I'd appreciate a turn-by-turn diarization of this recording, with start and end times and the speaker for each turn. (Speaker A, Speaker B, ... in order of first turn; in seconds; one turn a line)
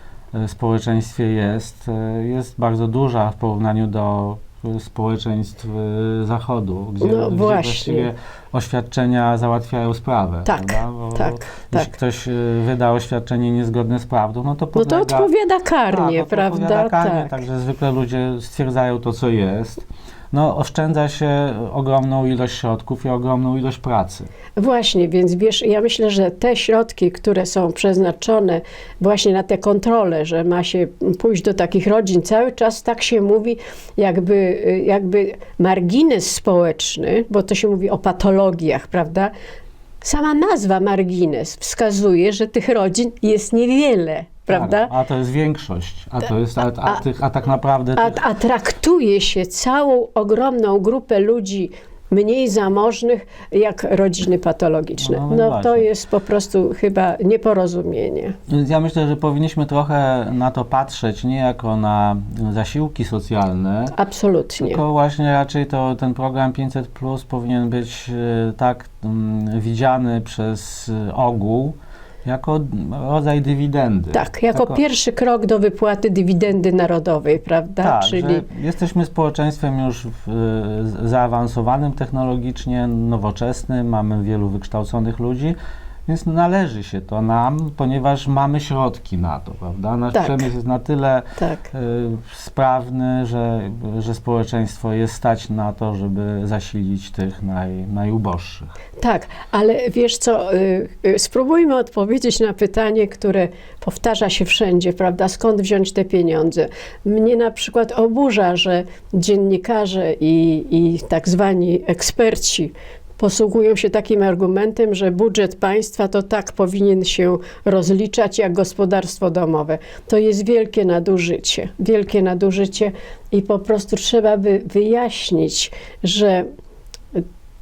Speaker A: 0.3-15.3
Speaker B: 7.0-8.1
Speaker B: 10.4-11.9
Speaker B: 14.8-17.4
Speaker A: 15.9-24.3
Speaker B: 24.6-39.3
Speaker B: 40.0-44.9
Speaker A: 44.5-48.2
Speaker B: 48.0-58.4
Speaker A: 55.0-55.9
Speaker A: 58.5-63.9
Speaker B: 63.9-64.8
Speaker A: 64.6-74.8
Speaker B: 74.1-78.4
Speaker A: 77.8-98.7
Speaker B: 90.1-90.5
Speaker B: 91.4-91.7
Speaker B: 99.0-126.5